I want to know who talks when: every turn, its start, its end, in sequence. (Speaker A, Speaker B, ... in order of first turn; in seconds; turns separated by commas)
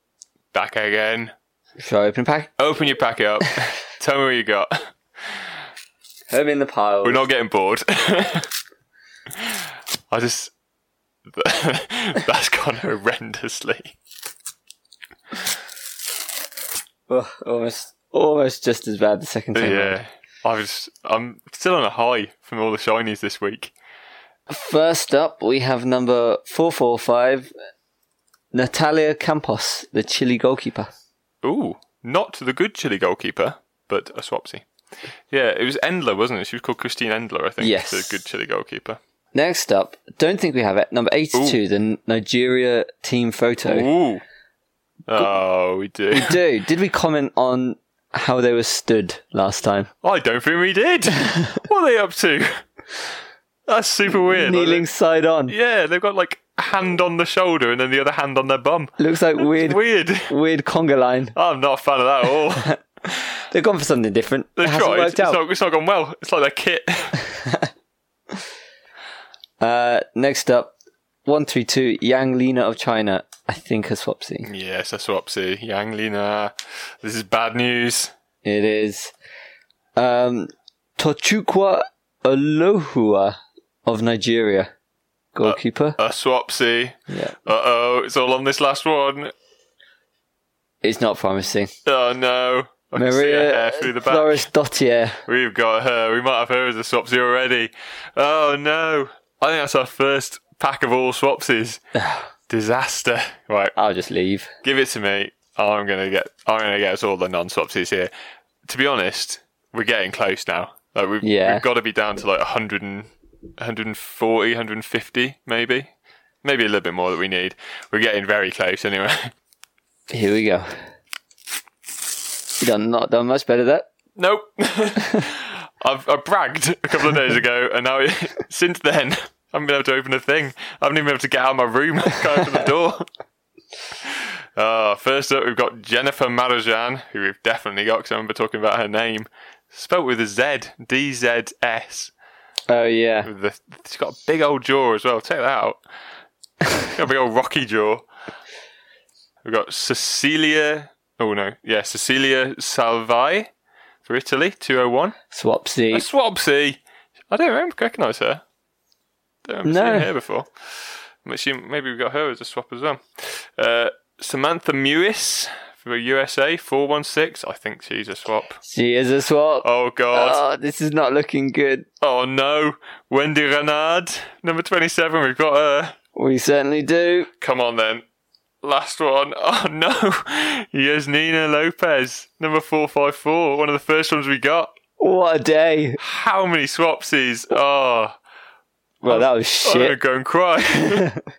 Speaker A: 0.5-1.3, Speaker B: 1.8-2.5, Speaker A: 2.6-4.7, Speaker B: 6.3-7.2, Speaker A: 7.0-8.5, Speaker A: 10.1-10.5, Speaker A: 11.3-13.9, Speaker B: 17.1-20.0, Speaker A: 19.6-23.7, Speaker B: 24.5-27.5, Speaker B: 28.5-30.9, Speaker A: 31.4-34.6, Speaker A: 35.3-39.0, Speaker B: 37.6-38.2, Speaker B: 39.3-43.9, Speaker A: 43.6-44.2, Speaker A: 45.1-46.4, Speaker B: 46.1-49.9, Speaker A: 50.0-52.5, Speaker A: 53.7-54.9, Speaker B: 54.3-55.5, Speaker A: 55.5-60.3, Speaker B: 59.0-61.4, Speaker A: 61.4-62.7, Speaker B: 63.5-65.4, Speaker A: 64.6-67.2, Speaker B: 69.6-70.7, Speaker B: 71.3-74.5, Speaker A: 74.5-78.1, Speaker B: 78.4-79.1, Speaker B: 80.0-83.3, Speaker B: 83.9-84.7, Speaker B: 85.3-86.0, Speaker A: 85.4-89.3, Speaker B: 87.1-87.4, Speaker B: 90.8-91.7, Speaker A: 91.8-94.5, Speaker B: 93.0-95.2, Speaker A: 95.3-101.8, Speaker B: 102.0-102.3, Speaker A: 102.5-103.8, Speaker B: 103.8-104.5, Speaker A: 104.6-108.1, Speaker A: 108.7-115.9, Speaker B: 111.2-111.6, Speaker A: 116.4-119.3, Speaker B: 120.1-120.7, Speaker B: 122.6-123.9, Speaker A: 124.2-133.1, Speaker A: 134.1-142.1, Speaker B: 142.7-143.3, Speaker A: 143.2-145.8, Speaker A: 146.8-148.1, Speaker A: 149.4-153.5, Speaker A: 154.1-155.1, Speaker B: 155.3-156.1, Speaker A: 155.9-158.4, Speaker A: 159.5-160.5, Speaker B: 159.7-160.1, Speaker A: 161.2-163.0, Speaker A: 163.6-168.6, Speaker B: 168.6-171.9, Speaker A: 169.6-170.4, Speaker A: 172.0-175.9, Speaker B: 176.2-177.3, Speaker A: 177.4-178.0, Speaker A: 178.6-184.7, Speaker B: 185.0-186.0, Speaker A: 186.0-188.2, Speaker B: 189.0-190.0, Speaker A: 189.1-191.0, Speaker B: 190.8-191.2